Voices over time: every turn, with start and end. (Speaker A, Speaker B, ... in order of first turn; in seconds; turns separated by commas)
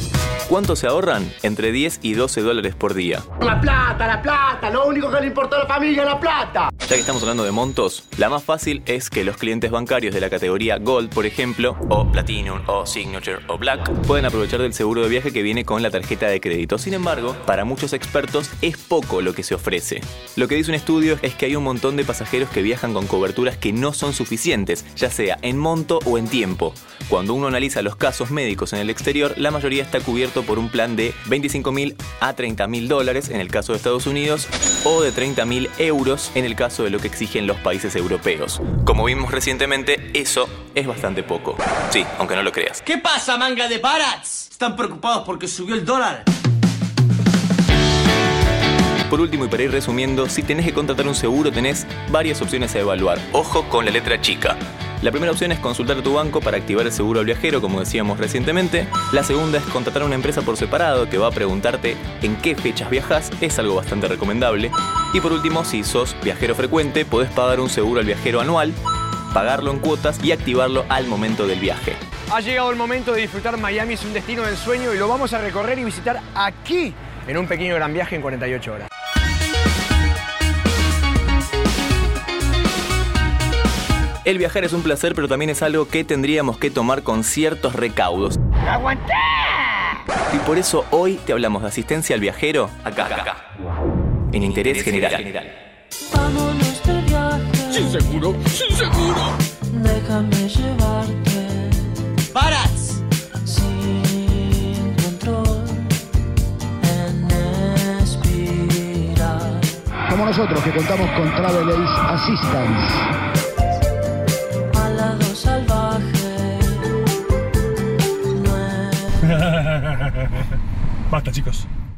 Speaker A: 0.5-3.2, Speaker B: 3.4-6.7, Speaker A: 6.8-42.8, Speaker C: 42.9-46.2, Speaker A: 49.1-68.8, Speaker A: 69.3-72.0, Speaker D: 72.3-78.9, Speaker A: 84.2-88.4, Speaker A: 90.3-93.4, Speaker A: 94.3-95.5, Speaker E: 96.1-98.1, Speaker F: 97.7-99.3, Speaker E: 99.7-102.0, Speaker C: 102.3-103.0, Speaker E: 103.4-106.0, Speaker E: 106.8-109.7, Speaker G: 110.1-113.1, Speaker E: 114.7-117.0, Speaker E: 118.3-119.3, Speaker F: 121.1-121.6